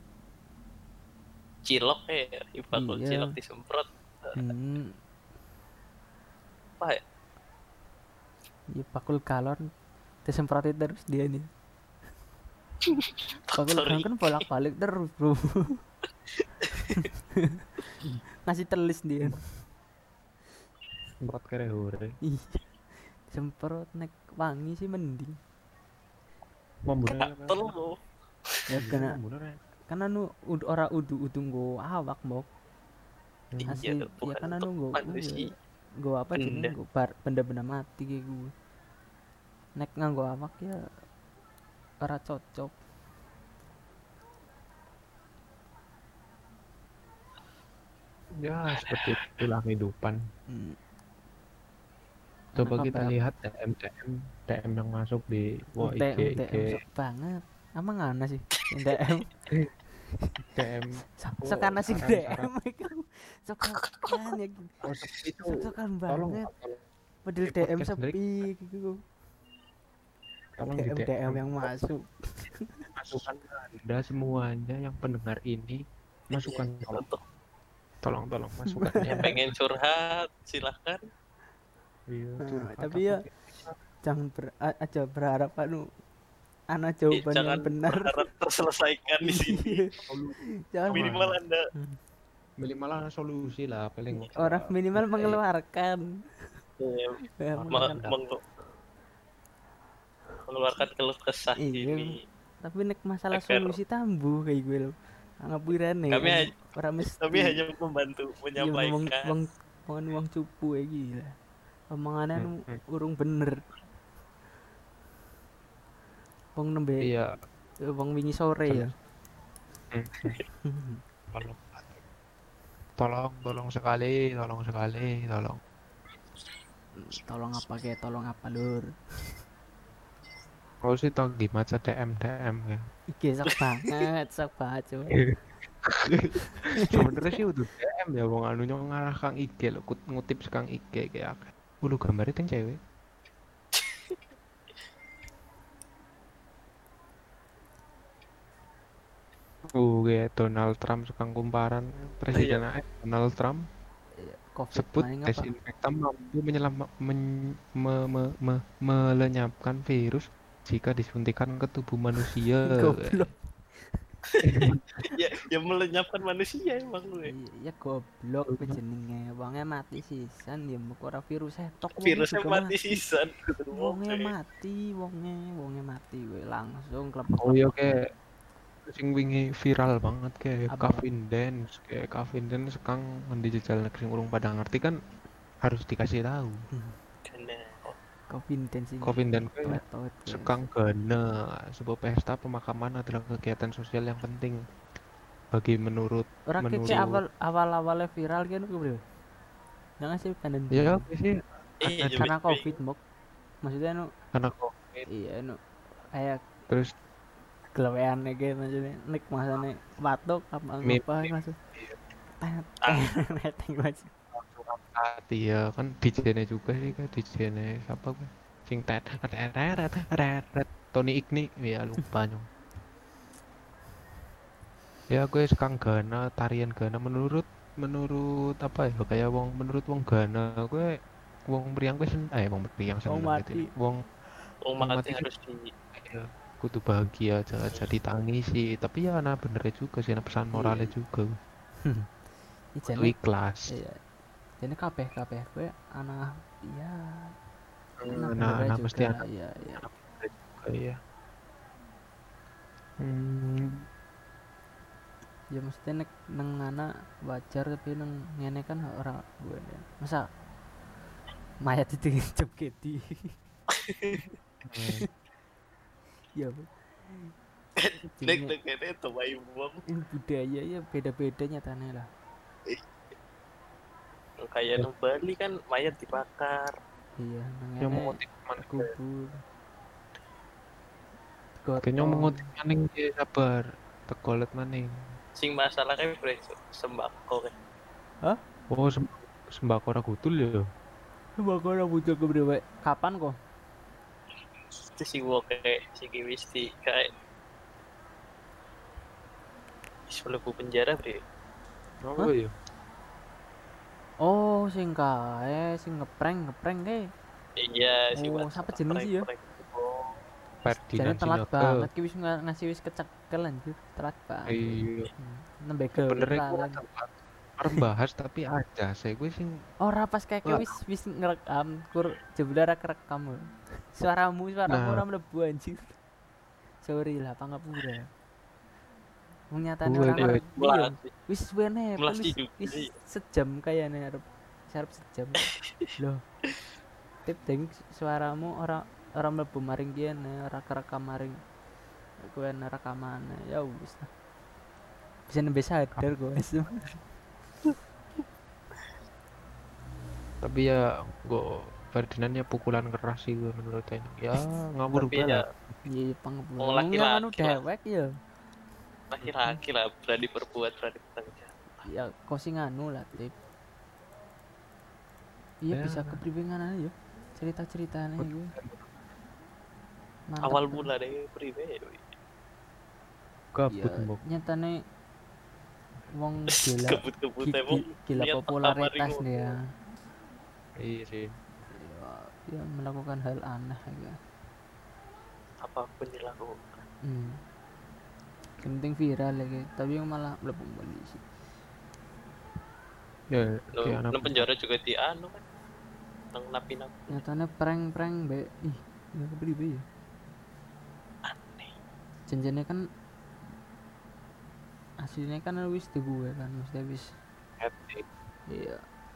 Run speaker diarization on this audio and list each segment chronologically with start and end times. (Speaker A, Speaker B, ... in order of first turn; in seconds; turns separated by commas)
Speaker A: 1.6-4.4, Speaker B: 2.7-3.3, Speaker B: 4.4-5.0, Speaker B: 8.7-9.7, Speaker B: 10.2-11.5, Speaker A: 12.8-14.1, Speaker B: 13.5-15.8, Speaker A: 16.4-17.0, Speaker B: 16.9-17.5, Speaker B: 18.4-19.5, Speaker C: 21.2-22.1, Speaker B: 22.2-22.7, Speaker B: 23.3-25.4, Speaker C: 26.9-27.8, Speaker A: 27.1-28.0, Speaker B: 28.7-29.1, Speaker C: 28.8-29.6, Speaker B: 29.9-32.5, Speaker C: 33.5-33.8, Speaker A: 33.7-35.5, Speaker B: 33.7-35.5, Speaker B: 36.0-38.5, Speaker A: 36.4-36.7, Speaker B: 39.8-40.8, Speaker B: 42.0-42.8, Speaker C: 48.4-50.2, Speaker A: 48.7-49.5, Speaker B: 50.5-50.8, Speaker C: 52.5-56.7, Speaker B: 52.6-53.1, Speaker B: 55.8-59.3, Speaker C: 60.5-62.5, Speaker B: 61.2-64.8, Speaker A: 63.8-64.1, Speaker C: 64.8-65.5, Speaker B: 65.4-66.5, Speaker C: 66.1-66.8, Speaker B: 67.2-69.0, Speaker C: 67.4-68.2, Speaker C: 70.6-71.7, Speaker B: 70.7-72.9, Speaker C: 73.0-75.8, Speaker C: 76.3-77.0, Speaker A: 76.3-77.2, Speaker C: 78.0-79.5, Speaker B: 78.7-79.1, Speaker A: 79.1-81.0, Speaker C: 82.1-83.8, Speaker B: 82.4-83.2, Speaker B: 84.0-85.9, Speaker B: 86.7-88.3, Speaker A: 87.1-89.9, Speaker B: 89.2-89.9, Speaker C: 90.1-91.4, Speaker B: 90.7-91.1, Speaker A: 90.9-91.6, Speaker C: 92.6-94.6, Speaker B: 94.3-96.1, Speaker A: 96.8-97.2, Speaker B: 97.4-98.1, Speaker C: 97.5-98.2, Speaker A: 97.7-98.4, Speaker A: 100.5-102.1, Speaker B: 101.6-102.1, Speaker B: 102.6-107.6, Speaker A: 103.3-103.8, Speaker A: 106.1-109.4, Speaker B: 108.6-111.3, Speaker B: 111.9-113.6, Speaker C: 112.3-112.8, Speaker B: 116.5-117.1, Speaker B: 117.9-118.9, Speaker C: 118.6-118.9, Speaker C: 119.9-120.4, Speaker B: 120.6-121.0, Speaker C: 121.3-122.0, Speaker C: 123.0-125.6, Speaker B: 127.0-129.3, Speaker C: 130.8-132.8, Speaker B: 133.1-135.3, Speaker A: 133.6-133.9, Speaker C: 135.1-142.8, Speaker B: 136.7-137.4, Speaker A: 143.7-144.2, Speaker C: 149.6-153.6, Speaker A: 152.3-152.6, Speaker B: 154.2-155.5, Speaker C: 154.7-163.3, Speaker B: 162.6-164.0, Speaker C: 164.4-164.8, Speaker A: 165.0-167.3, Speaker B: 167.2-173.0, Speaker C: 168.5-168.8, Speaker A: 172.0-174.3, Speaker B: 173.7-177.9, Speaker C: 177.4-178.0, Speaker C: 178.9-185.0, Speaker B: 180.7-181.0, Speaker C: 185.6-186.6, Speaker B: 186.7-187.0, Speaker A: 187.2-188.0, Speaker B: 188.3-190.6, Speaker C: 189.0-194.6, Speaker C: 195.5-197.2, Speaker B: 196.5-199.0, Speaker B: 200.0-201.1, Speaker C: 200.7-202.3, Speaker A: 201.8-202.8, Speaker B: 202.1-203.0, Speaker B: 203.6-204.1, Speaker C: 204.3-205.1, Speaker B: 205.1-205.6, Speaker B: 206.1-206.5, Speaker B: 207.7-211.6, Speaker C: 210.8-212.0, Speaker B: 212.4-214.1, Speaker A: 212.8-213.1, Speaker C: 214.3-222.5, Speaker C: 225.1-230.9, Speaker C: 231.5-234.0, Speaker B: 233.1-233.7, Speaker A: 234.6-235.7, Speaker C: 234.8-235.3, Speaker C: 235.9-241.3, Speaker B: 240.5-240.9, Speaker B: 241.8-242.1, Speaker B: 242.8-243.2, Speaker C: 242.9-243.7, Speaker B: 243.7-244.0, Speaker B: 244.6-247.3, Speaker C: 248.0-249.2, Speaker B: 248.1-249.9, Speaker C: 249.8-251.0, Speaker C: 253.0-253.8, Speaker B: 255.5-260.2, Speaker B: 261.6-263.3, Speaker A: 263.7-264.4, Speaker C: 264.6-265.1, Speaker B: 266.4-267.3, Speaker A: 267.8-269.9, Speaker B: 268.2-268.5, Speaker B: 269.9-272.1, Speaker A: 274.4-276.7, Speaker B: 277.2-279.4, Speaker C: 277.8-278.9, Speaker B: 281.6-282.5, Speaker C: 281.8-284.9, Speaker A: 285.4-287.5, Speaker C: 288.7-290.6, Speaker B: 291.4-293.4, Speaker A: 295.0-297.1, Speaker A: 300.1-301.2, Speaker C: 302.0-302.5, Speaker B: 304.2-307.0, Speaker A: 307.6-309.8, Speaker B: 308.1-309.3, Speaker C: 310.6-311.9, Speaker B: 310.9-316.8, Speaker C: 314.5-315.1, Speaker C: 316.0-319.5, Speaker B: 319.8-326.0, Speaker C: 320.4-320.7, Speaker C: 324.7-325.0, Speaker B: 326.8-328.1, Speaker B: 329.5-335.5, Speaker C: 329.9-330.4, Speaker A: 330.1-331.1, Speaker A: 332.0-332.9, Speaker A: 335.4-335.9, Speaker B: 337.2-341.4, Speaker B: 342.2-344.1, Speaker B: 345.3-347.0, Speaker C: 350.4-355.8, Speaker A: 354.9-355.4, Speaker B: 355.9-358.1, Speaker A: 356.6-357.6, Speaker A: 359.1-361.8, Speaker C: 359.2-359.6, Speaker B: 361.9-363.4, Speaker B: 365.6-368.5, Speaker C: 365.7-366.2, Speaker C: 368.2-368.9, Speaker B: 370.3-370.9, Speaker A: 370.4-372.1, Speaker C: 373.5-374.2, Speaker B: 373.7-374.8, Speaker B: 376.1-379.6, Speaker A: 376.6-379.6, Speaker C: 380.8-381.3, Speaker B: 381.7-384.2, Speaker A: 385.6-386.9, Speaker B: 387.0-387.4, Speaker B: 388.6-391.2, Speaker C: 393.3-394.5, Speaker A: 393.8-395.4, Speaker A: 396.3-397.2, Speaker B: 397.1-399.9, Speaker A: 401.2-401.7, Speaker B: 402.3-402.8, Speaker B: 405.0-407.1, Speaker C: 407.6-408.0, Speaker B: 408.5-408.8